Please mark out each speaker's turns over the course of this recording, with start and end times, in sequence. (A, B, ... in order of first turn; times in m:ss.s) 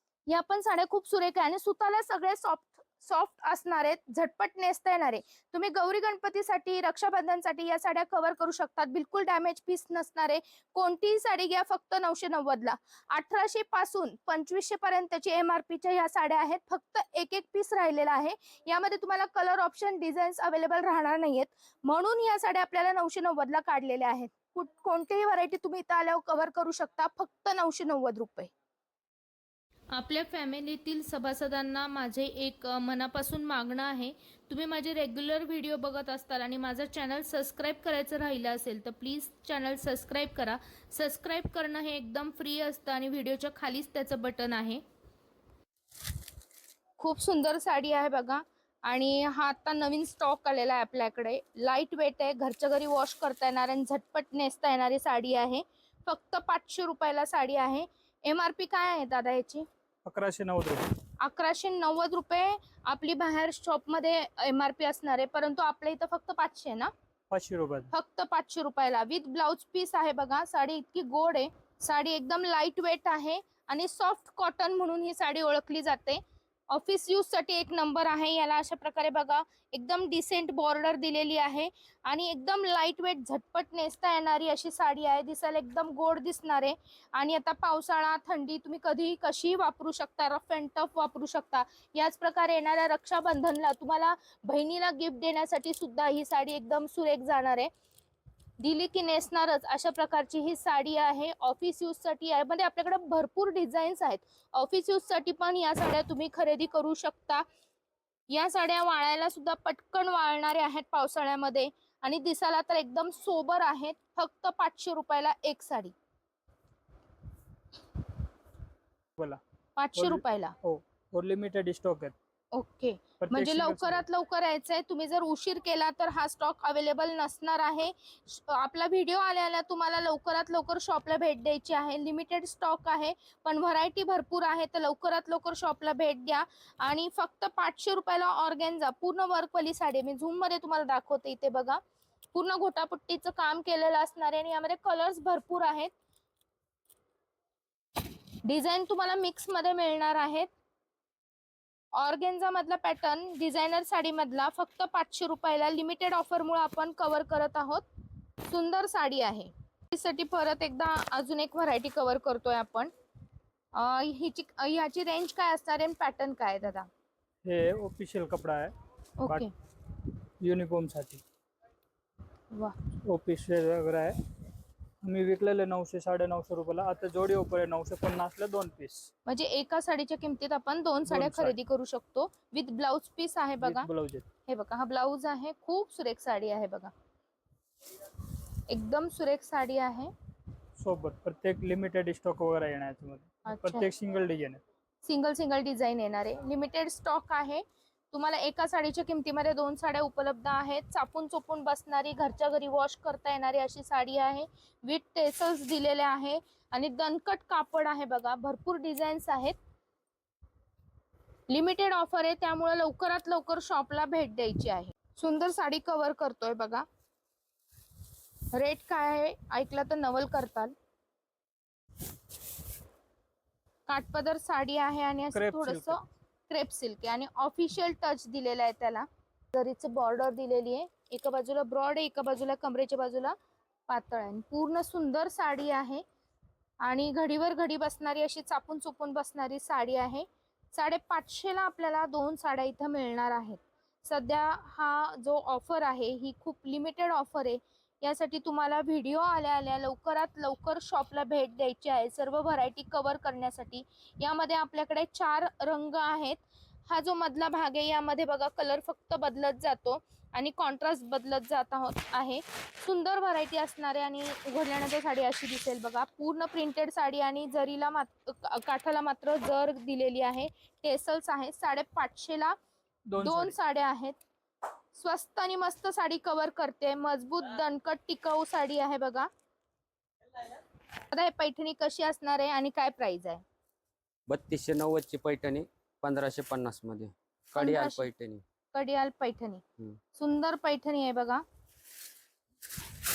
0:00.3-0:28.5 A
0:29.9-0:44.8 A
0:47.0-0:59.6 A
1:00.0-1:00.8 B
1:01.2-1:06.9 A
1:07.3-1:07.9 B
1:07.9-1:16.2 A
1:16.7-1:37.7 A
1:38.6-1:47.4 A
1:48.3-1:55.9 A
1:59.8-2:00.5 A
2:00.0-2:02.1 B
2:02.5-2:21.8 A
2:03.2-2:04.0 B
2:22.3-2:25.9 A
2:28.4-2:30.5 A
2:31.9-2:37.8 A
2:38.5-2:42.9 A
2:43.8-2:46.9 A
2:47.4-2:48.7 B
2:49.2-2:49.5 A
2:50.4-2:51.2 B
2:53.0-2:54.2 B
2:55.0-2:59.1 B
2:59.3-3:03.9 A
3:01.1-3:01.5 B
3:03.6-3:04.3 B
3:04.5-3:06.9 A
3:08.7-3:10.1 A
3:10.8-3:14.6 B
3:13.4-3:13.9 A
3:15.0-3:29.6 A
3:31.5-3:36.8 A
3:38.5-3:40.7 A
3:43.9-3:53.3 A
3:45.3-3:46.0 B
3:53.9-3:56.0 A
3:56.8-4:32.5 A
4:33.1-4:33.6 B
4:33.2-4:34.2 A
4:34.9-4:39.3 A
4:41.1-4:43.4 A
4:44.3-4:48.4 C
4:47.6-4:48.1 A
4:48.7-4:49.6 A
4:50.2-4:51.4 A